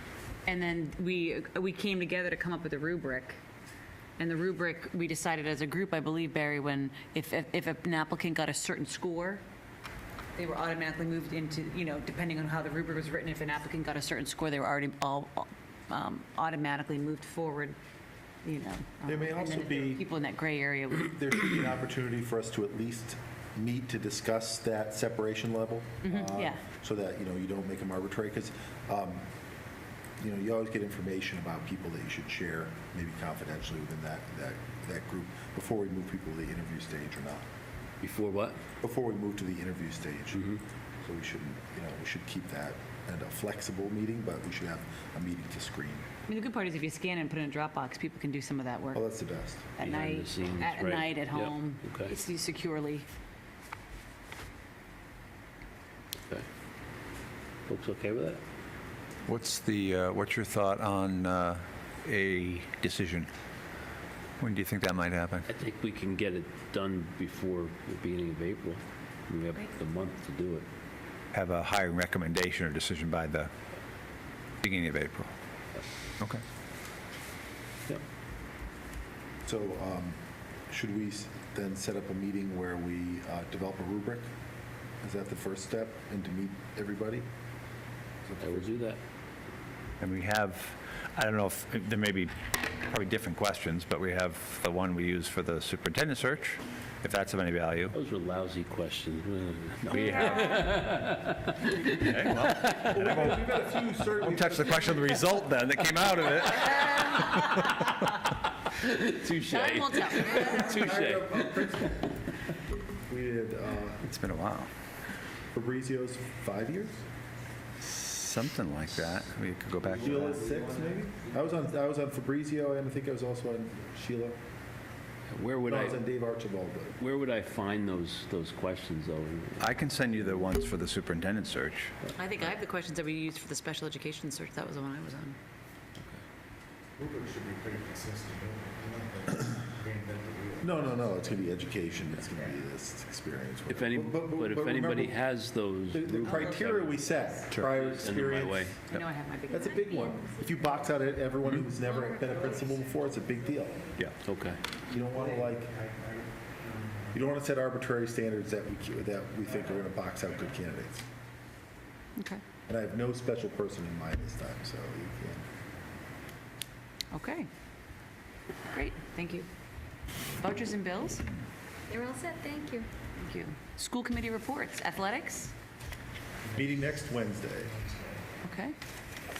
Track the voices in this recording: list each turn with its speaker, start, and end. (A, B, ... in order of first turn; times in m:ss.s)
0:00.4-0:03.4 A
0:04.2-0:09.4 A
0:10.3-0:17.8 A
0:18.4-0:21.1 A
0:19.0-0:20.0 B
0:21.0-0:29.3 B
0:26.0-0:26.6 A
0:30.2-0:37.4 B
0:38.0-0:38.6 C
0:38.8-0:46.0 B
0:46.3-0:49.1 A
0:48.9-0:49.7 B
0:49.8-0:53.0 A
0:49.8-0:52.1 C
0:57.7-0:58.4 C
0:59.2-1:03.3 D
1:04.4-1:05.5 D
1:05.4-1:10.7 C
1:11.3-1:13.5 D
1:14.6-1:15.3 D
1:19.4-1:24.3 B
1:25.0-1:27.2 B
1:28.2-1:28.7 B
1:28.4-1:29.0 C
1:30.0-1:37.9 D
1:37.9-1:41.9 C
1:39.9-1:40.7 A
1:39.9-1:40.9 D
1:41.9-1:47.7 D
1:42.5-1:42.8 C
1:42.7-1:45.2 B
1:48.7-1:52.0 C
1:49.4-1:50.8 A
1:50.4-1:52.1 B
1:53.1-1:54.0 B
1:54.1-1:54.7 D
1:55.5-1:57.0 B
1:57.8-2:00.4 D
2:00.0-2:04.4 B
2:05.3-2:06.0 C
2:05.6-2:06.9 B
2:07.0-2:10.5 C
2:09.6-2:11.9 D
2:12.2-2:15.4 A
2:17.0-2:21.1 E
2:20.6-2:25.2 B
2:23.7-2:26.9 C
2:25.9-2:28.7 B
2:26.3-2:27.4 A
2:27.6-2:28.8 C
2:28.9-2:30.1 A
2:29.5-2:33.8 B
2:29.5-2:31.1 F
2:31.9-2:33.3 F
2:34.2-2:34.6 C
2:34.9-2:35.8 B
2:35.1-2:37.0 E
2:37.1-2:41.0 B
2:42.2-2:42.4 A
2:42.7-2:45.5 B
2:47.1-2:47.5 A
2:48.7-2:49.5 A
2:50.4-2:51.3 A
2:51.9-2:52.9 F
2:53.2-2:55.5 A
2:56.5-2:57.7 B
2:58.4-2:58.7 A